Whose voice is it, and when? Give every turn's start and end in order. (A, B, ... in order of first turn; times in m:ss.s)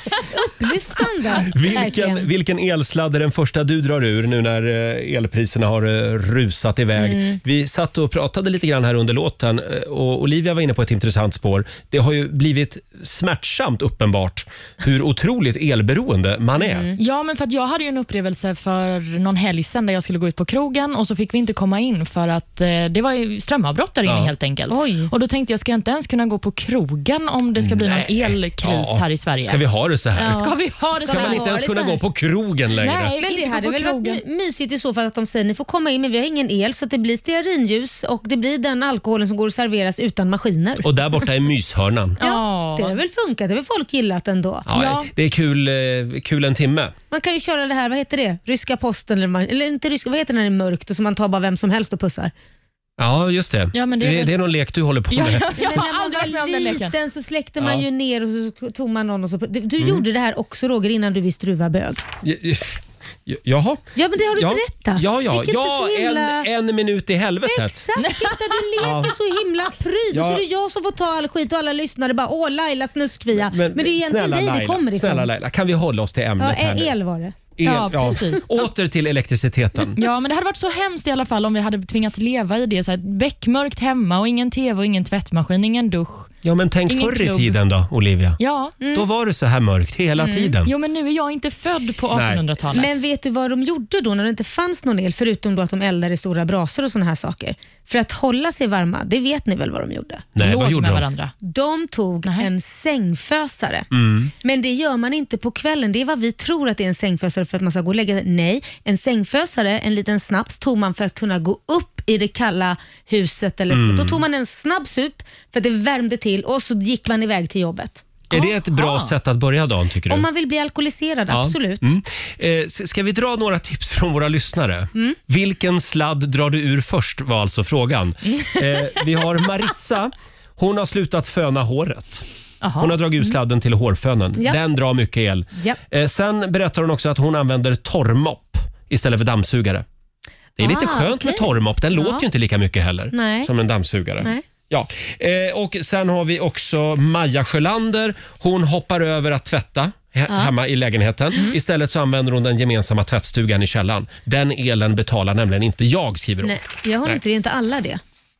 0:00.3-0:02.3 A
0:01.4-0:16.9 B
0:07.0-0:07.4 A
0:16.6-0:17.0 A
0:17.0-0:29.6 C
0:24.0-0:24.3 B
0:24.7-0:25.1 A
0:27.6-0:30.4 B
0:30.2-0:32.0 A
0:30.2-0:31.8 C
0:31.0-0:33.1 B
0:32.8-0:34.2 C
0:33.2-0:40.9 A
0:40.8-0:42.2 B
0:42.2-0:43.0 C
0:42.2-0:44.7 A
0:44.7-0:46.9 B
0:44.7-0:45.1 C
0:47.1-0:52.3 A
0:53.0-0:55.6 B
0:53.7-0:54.3 C
0:55.1-0:56.9 C
0:55.6-1:02.0 A
0:57.6-0:57.8 B
1:02.2-1:03.8 B
1:03.9-1:06.5 A
1:04.4-1:07.8 B
1:07.4-1:15.3 A
1:08.0-1:08.3 C
1:08.8-1:09.1 B
1:10.1-1:10.4 B
1:13.4-1:16.9 B
1:16.4-1:17.4 A
1:17.6-1:20.0 B
1:17.6-1:18.4 C
1:20.0-1:26.3 C
1:26.4-1:28.4 B
1:26.9-1:27.6 C
1:28.4-1:28.8 C
1:28.8-1:29.0 A
1:28.9-1:30.7 B
1:30.2-1:30.5 A
1:30.6-1:33.0 C
1:32.1-1:32.5 B
1:32.7-1:40.2 A
1:40.4-1:41.1 B
1:40.4-1:41.3 C
1:41.4-1:43.9 A
1:42.2-1:42.5 C
1:43.9-1:44.3 B
1:44.4-1:58.0 A
1:53.7-1:54.2 B
1:58.3-2:00.2 B
1:58.4-1:59.1 C
2:00.1-2:01.9 A
2:01.3-2:12.2 B
2:12.6-2:13.0 C
2:12.8-2:19.8 B
2:20.6-2:37.2 B
2:20.6-2:22.2 A
2:23.1-2:23.5 A
2:36.4-2:38.0 A